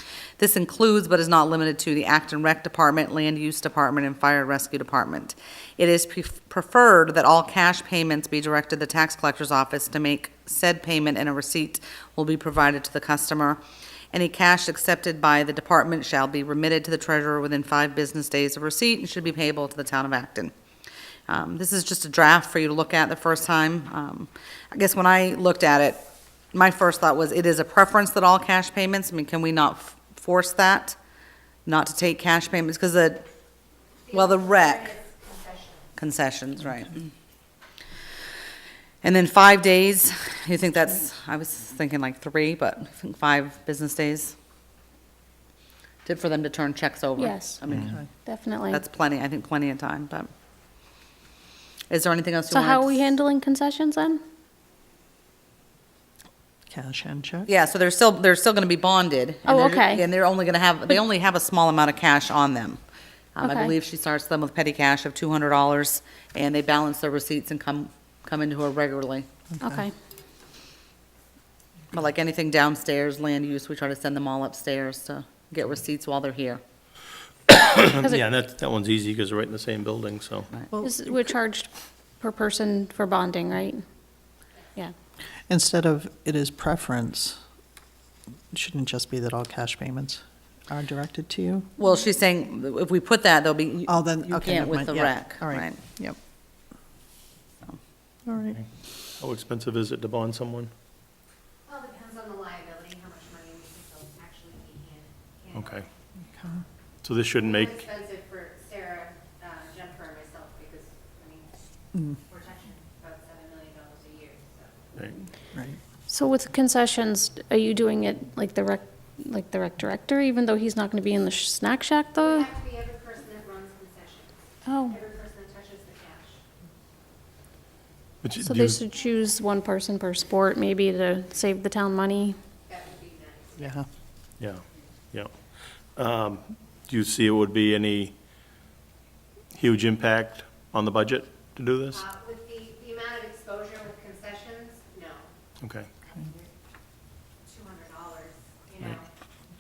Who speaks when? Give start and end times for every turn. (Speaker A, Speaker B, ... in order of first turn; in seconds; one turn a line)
Speaker A: 0.4-13.6
Speaker A: 14.1-20.5
Speaker A: 21.3-26.0
Speaker A: 26.5-31.0
Speaker A: 31.7-33.2
Speaker A: 34.1-35.0
Speaker B: 34.1-35.7
Speaker A: 36.0-37.1
Speaker A: 39.0-44.3
Speaker A: 46.0-48.0
Speaker C: 47.2-47.6
Speaker C: 48.2-48.8
Speaker A: 48.7-50.3
Speaker A: 51.9-53.0
Speaker C: 52.5-54.2
Speaker D: 56.7-57.5
Speaker A: 57.5-62.8
Speaker C: 59.4-60.0
Speaker A: 63.4-69.3
Speaker C: 63.4-63.7
Speaker C: 69.6-69.9
Speaker A: 71.9-76.6
Speaker E: 77.5-80.5
Speaker C: 80.7-83.8
Speaker D: 85.5-87.4
Speaker D: 88.5-91.7
Speaker A: 91.8-95.8
Speaker D: 93.9-96.2
Speaker D: 98.2-98.6
Speaker E: 99.2-100.7
Speaker B: 101.7-105.8
Speaker E: 105.5-105.9
Speaker D: 106.3-106.6
Speaker E: 107.0-107.9
Speaker B: 107.6-111.5
Speaker B: 112.3-114.7
Speaker C: 116.1-122.5
Speaker B: 122.3-124.3
Speaker C: 124.7-125.0
Speaker B: 125.0-126.4
Speaker E: 128.2-128.8
Speaker C: 128.4-132.3
Speaker B: 132.7-133.6
Speaker D: 133.6-133.9
Speaker E: 134.4-135.3
Speaker E: 135.9-138.1
Speaker E: 139.6-142.1
Speaker B: 142.1-145.3
Speaker E: 145.6-145.9
Speaker B: 147.5-149.0